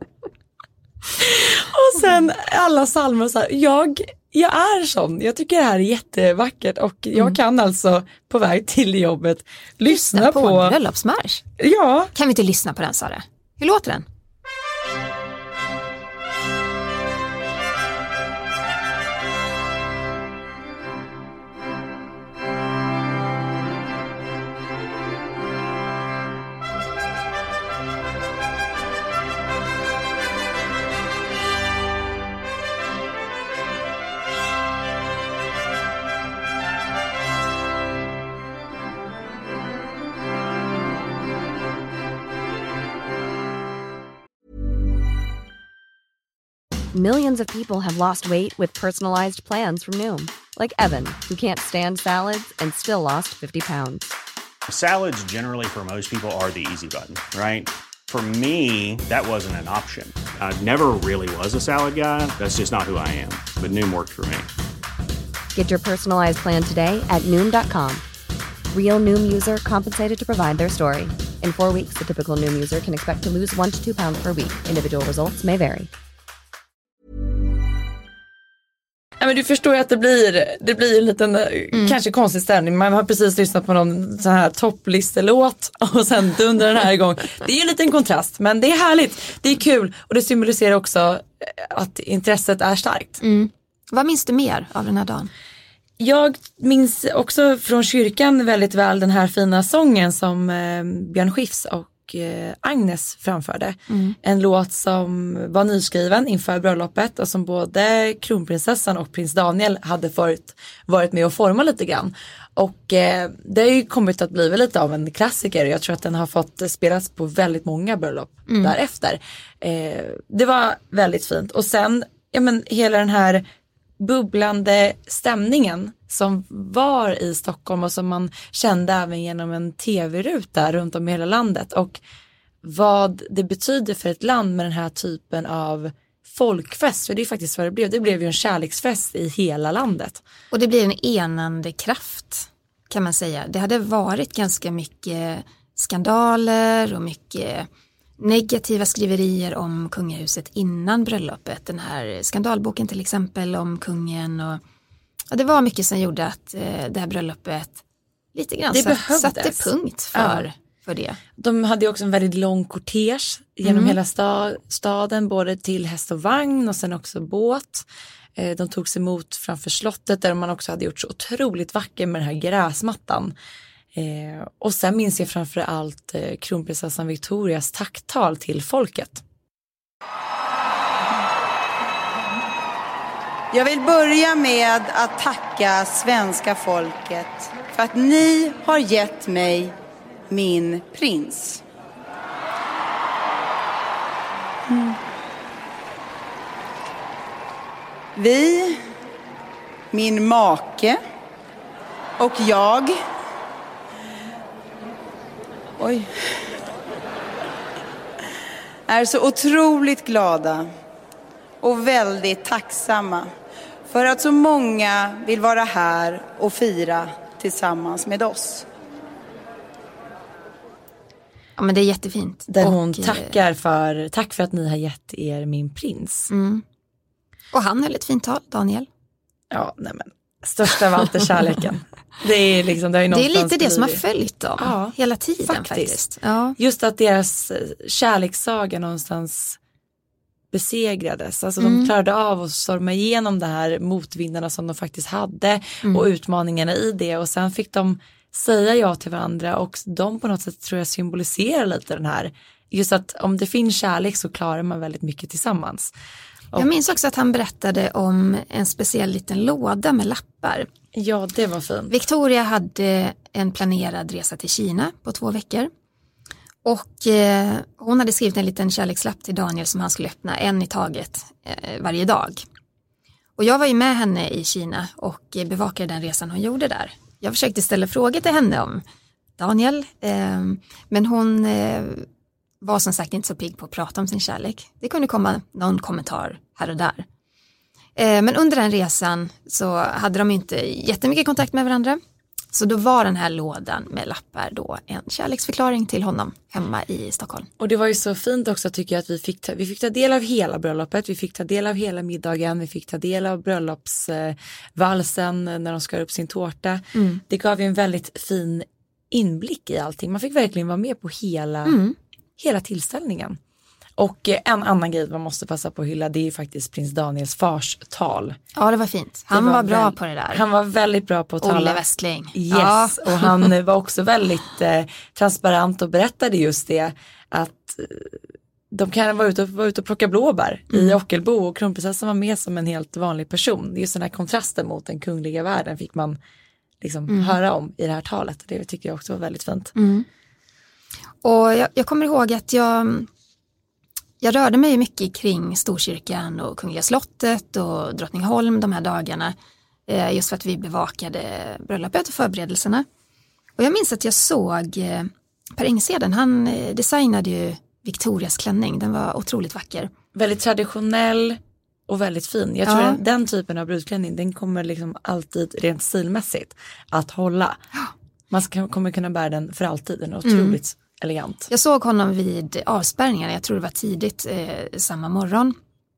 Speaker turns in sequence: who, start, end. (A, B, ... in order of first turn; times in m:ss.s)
0:01.2-0:10.8 A
0:09.9-0:11.4 B
0:11.6-0:12.1 A
0:12.1-0:14.0 B
0:46.9-0:54.1 C
0:54.7-1:04.5 D
1:05.5-1:08.0 C
1:08.7-1:15.9 C
1:19.2-1:33.2 A
1:33.2-1:35.3 B
1:36.0-2:03.4 A
1:43.9-1:44.2 B
1:58.5-1:58.7 B
2:04.0-2:12.0 A
2:12.6-2:20.2 A
2:20.5-2:27.7 B
2:28.2-2:34.6 B
2:35.3-2:37.8 B
2:38.3-2:41.2 B
2:38.7-2:40.4 A
2:41.4-2:53.3 A
2:43.6-2:44.0 B
2:53.9-2:59.2 A
3:03.5-3:09.8 E
3:10.3-3:11.6 E
3:14.7-3:15.0 E
3:18.2-3:18.8 E
3:19.9-3:21.0 E
3:22.2-3:23.0 E
3:25.8-3:26.4 E
3:28.9-3:30.7 E
3:31.6-3:33.3 E
3:33.9-3:38.7 E
3:41.6-3:43.4 B
3:42.5-3:46.3 A
3:46.3-3:46.6 B
3:47.5-3:48.9 B
3:49.5-3:54.0 A
3:53.1-3:56.6 B
3:54.6-3:56.0 A
3:56.6-3:59.6 A
4:00.5-4:15.9 A
4:01.6-4:01.9 B
4:16.6-4:20.7 B
4:20.9-4:21.9 A
4:21.9-4:25.7 B
4:26.6-4:32.4 B
4:33.4-4:38.8 B
4:39.4-4:42.1 B
4:42.6-4:47.0 B
4:48.0-4:52.0 B
4:52.5-4:57.5 B
4:57.6-5:11.8 A
5:06.9-5:07.2 B
5:11.6-5:12.0 B
5:12.4-5:13.4 A
5:14.0-5:18.4 A
5:18.5-5:20.4 B
5:19.3-5:21.8 A
5:21.4-5:23.5 B
5:22.3-5:28.2 A
5:28.7-5:36.2 A
5:30.7-5:31.0 B
5:36.8-5:39.7 A
5:37.1-5:37.3 B
5:39.7-5:40.0 B
5:41.2-5:43.1 B
5:44.2-5:49.3 B
5:49.9-5:52.8 B
5:53.6-5:59.9 B
6:00.1-6:07.6 A
6:02.6-6:03.0 B
6:08.3-6:11.5 A
6:10.2-6:10.6 B
6:11.5-6:15.6 B